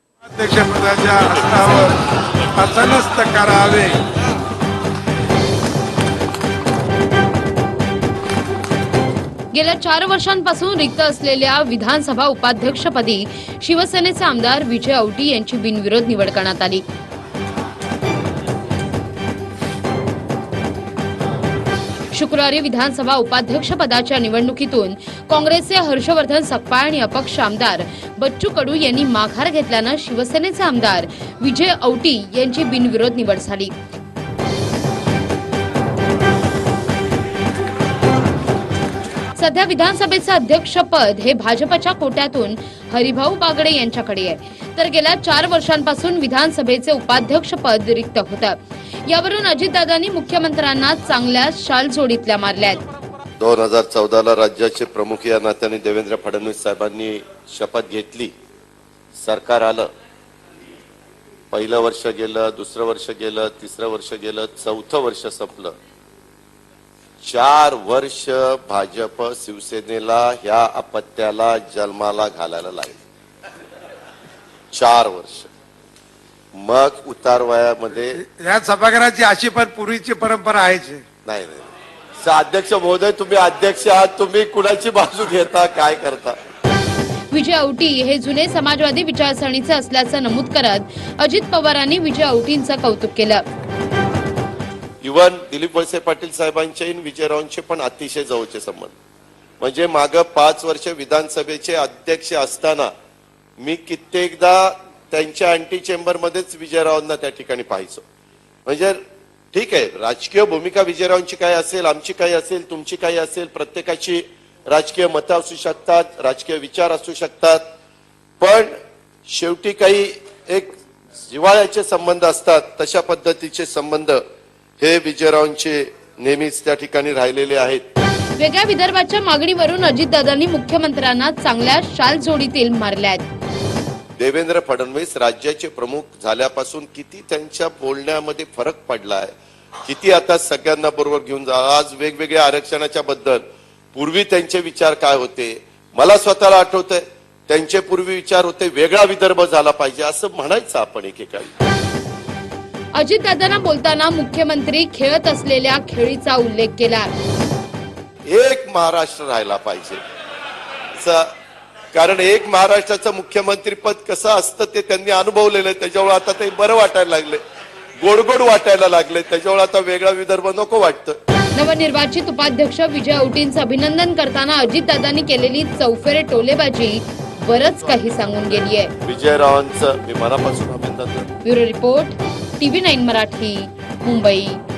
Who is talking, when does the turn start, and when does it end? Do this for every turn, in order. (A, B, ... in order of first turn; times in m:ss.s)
0:00.3-0:02.0 A
0:02.6-0:04.0 A
0:09.5-0:16.8 B
0:22.1-0:33.7 B
0:39.4-0:52.8 B
0:53.4-0:58.3 C
0:59.2-0:59.9 C
1:01.5-1:05.8 C
1:07.2-1:13.0 C
1:14.7-1:15.5 C
1:16.6-1:18.2 C
1:18.2-1:21.0 A
1:21.2-1:21.7 C
1:22.2-1:26.4 C
1:27.3-1:33.4 B
1:35.0-1:39.0 C
1:39.6-1:42.9 C
1:43.6-1:48.0 C
1:48.7-1:49.0 C
1:49.5-1:57.6 C
1:58.4-1:58.7 C
1:59.3-2:04.2 C
2:04.8-2:07.8 C
2:08.4-2:13.2 B
2:14.2-2:31.5 C
2:33.0-2:37.1 B
2:38.3-2:40.0 C
2:41.0-2:41.3 C
2:41.9-2:47.4 C
2:48.0-2:51.2 C
2:51.6-2:58.9 B
2:57.9-3:01.3 C
3:01.4-3:04.6 B